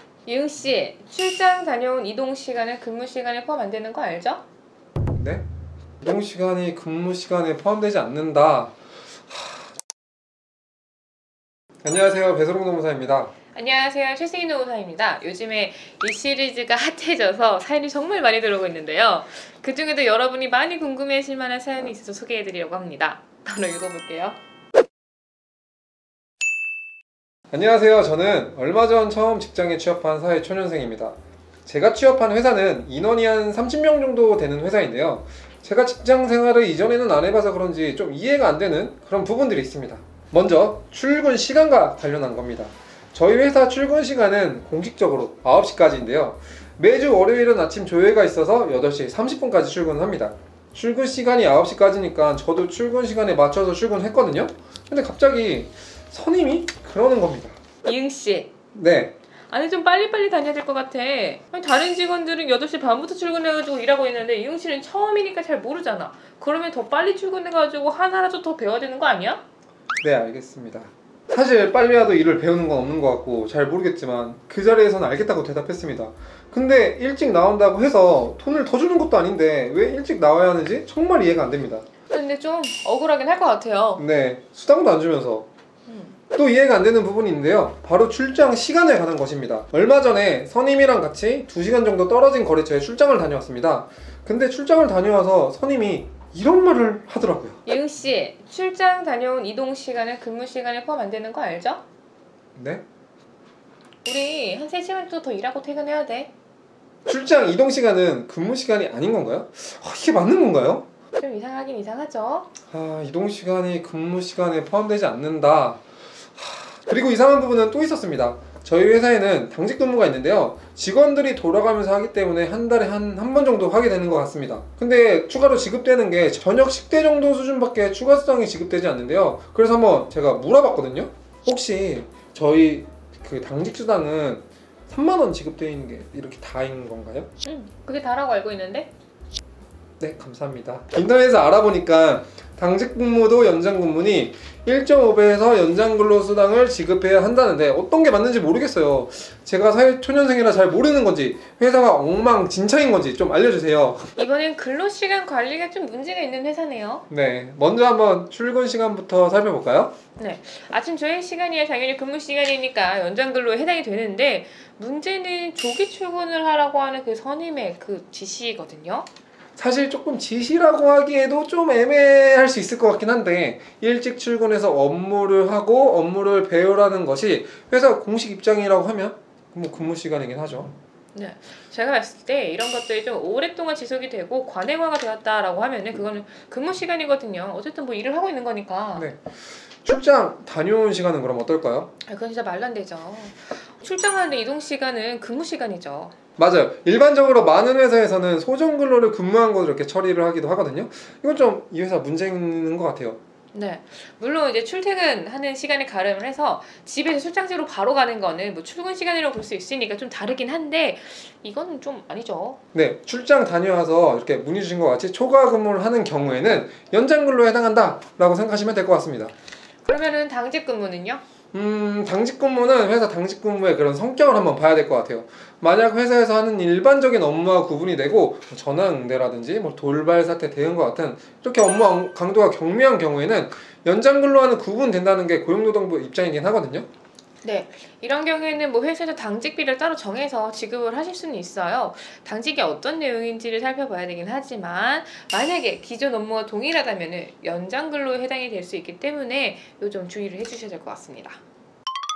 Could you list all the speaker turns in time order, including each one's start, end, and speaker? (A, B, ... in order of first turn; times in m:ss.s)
0:00.3-0:04.4 A
0:05.1-0:05.4 B
0:06.0-0:08.8 B
0:09.3-0:09.7 B
0:11.8-0:13.3 B
0:13.5-0:24.4 A
0:27.5-0:57.6 B
0:57.8-0:58.5 A
0:58.7-0:59.2 B
0:59.5-1:09.4 A
1:10.0-1:21.9 B
1:22.1-1:24.0 A
1:24.0-1:25.5 B
1:25.9-1:26.2 A
1:26.3-1:37.6 B
1:37.6-1:41.8 A
1:42.6-1:42.8 B
1:44.0-1:46.3 A
1:47.1-1:50.9 B
1:51.2-1:52.5 A
1:52.7-1:55.8 B
1:56.4-2:17.3 B
2:17.4-2:18.9 A
2:20.0-2:34.1 B
2:34.2-2:37.0 A
2:37.1-2:39.9 B
2:40.2-2:49.1 A
2:49.6-3:00.7 B
3:01.1-3:09.1 A
3:09.0-3:11.9 B
3:12.1-3:16.1 A
3:16.4-3:23.2 B
3:23.5-3:32.6 A
3:32.7-3:39.3 B
3:39.8-3:41.2 A
3:41.5-3:56.9 B
3:57.4-4:11.4 A